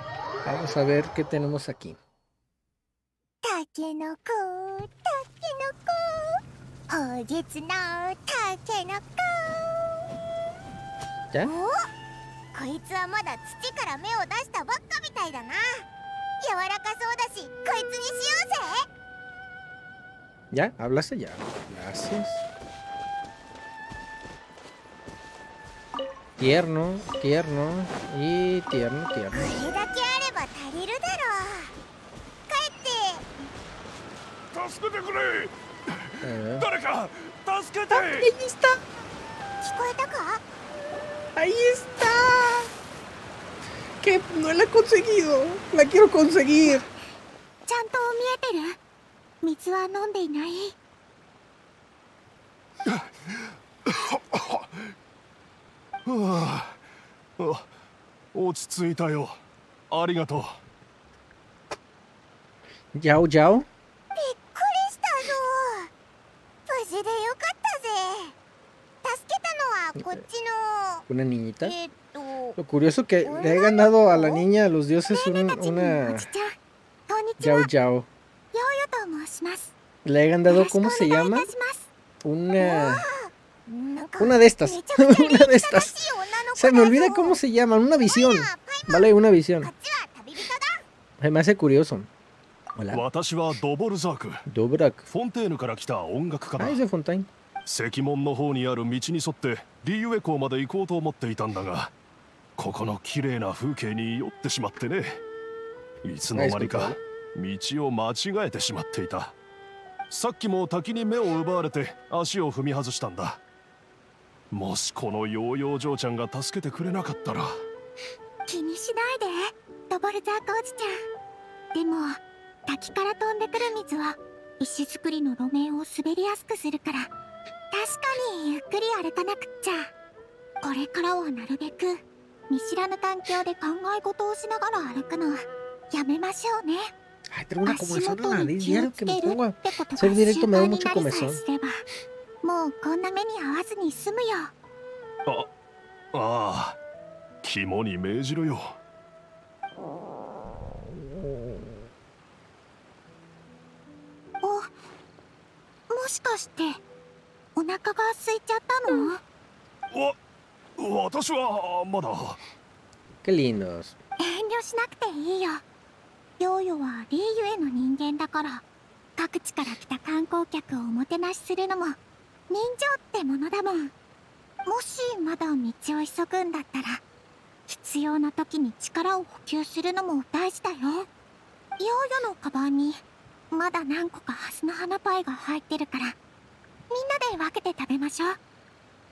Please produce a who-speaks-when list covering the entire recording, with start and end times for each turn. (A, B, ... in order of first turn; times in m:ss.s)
0:00.4-0:02.0 A
0:03.4-0:09.8 B
0:11.4-0:11.9 B
0:12.5-0:15.8 B
0:16.4-0:18.8 B
0:20.5-0:22.4 A
0:26.4-0:29.5 A
0:29.3-0:31.7 B
0:32.5-0:33.2 B
0:34.5-0:38.3 C
0:36.2-0:36.7 A
0:37.9-0:38.8 A
0:39.6-0:40.4 B
0:41.4-0:42.7 A
0:44.0-0:46.8 A
0:47.7-0:48.8 B
0:49.4-0:50.7 B
0:52.8-0:54.8 C
0:56.0-0:56.8 C
0:57.4-0:57.7 C
0:58.3-0:59.4 C
0:59.9-1:00.6 C
1:02.9-1:03.7 A
1:04.1-1:05.9 B
1:06.6-1:08.3 B
1:09.0-1:11.0 B
1:11.1-1:11.7 A
1:11.6-1:12.6 B
1:12.6-1:16.3 A
1:13.2-1:14.4 B
1:15.1-1:16.5 B
1:17.1-1:17.7 B
1:17.4-1:18.1 A
1:18.5-1:19.7 B
1:20.0-1:21.5 A
1:20.5-1:21.9 B
1:22.2-1:23.0 A
1:22.6-1:27.4 B
1:24.2-1:26.0 A
1:26.6-1:29.7 A
1:28.1-1:29.1 B
1:29.6-1:30.8 B
1:31.2-1:32.1 A
1:32.8-1:33.0 A
1:32.9-1:34.4 C
1:34.4-1:35.1 A
1:35.1-1:36.8 C
1:36.6-1:37.3 A
1:37.6-1:41.9 C
1:42.6-1:45.2 C
1:46.0-1:49.3 C
1:46.3-1:47.0 A
1:50.1-1:53.4 C
1:54.5-1:57.6 C
1:58.5-2:00.9 B
2:01.7-2:07.1 B
2:07.7-2:09.9 B
2:10.6-2:16.9 B
2:17.3-2:21.4 A
2:17.6-2:21.8 B
2:22.4-2:24.5 B
2:26.1-2:26.8 C
2:27.4-2:28.8 C
2:34.4-2:34.7 B
2:35.9-2:36.8 B
2:37.6-2:39.2 B
2:39.9-2:40.2 C
2:40.8-2:42.4 C
2:43.2-2:44.0 A
2:44.2-2:45.6 B
2:46.4-2:48.6 B
2:49.2-2:52.0 B
2:52.5-2:53.9 B
2:54.6-2:57.0 B
2:57.7-3:01.1 B
3:01.8-3:06.1 B
3:06.9-3:08.4 B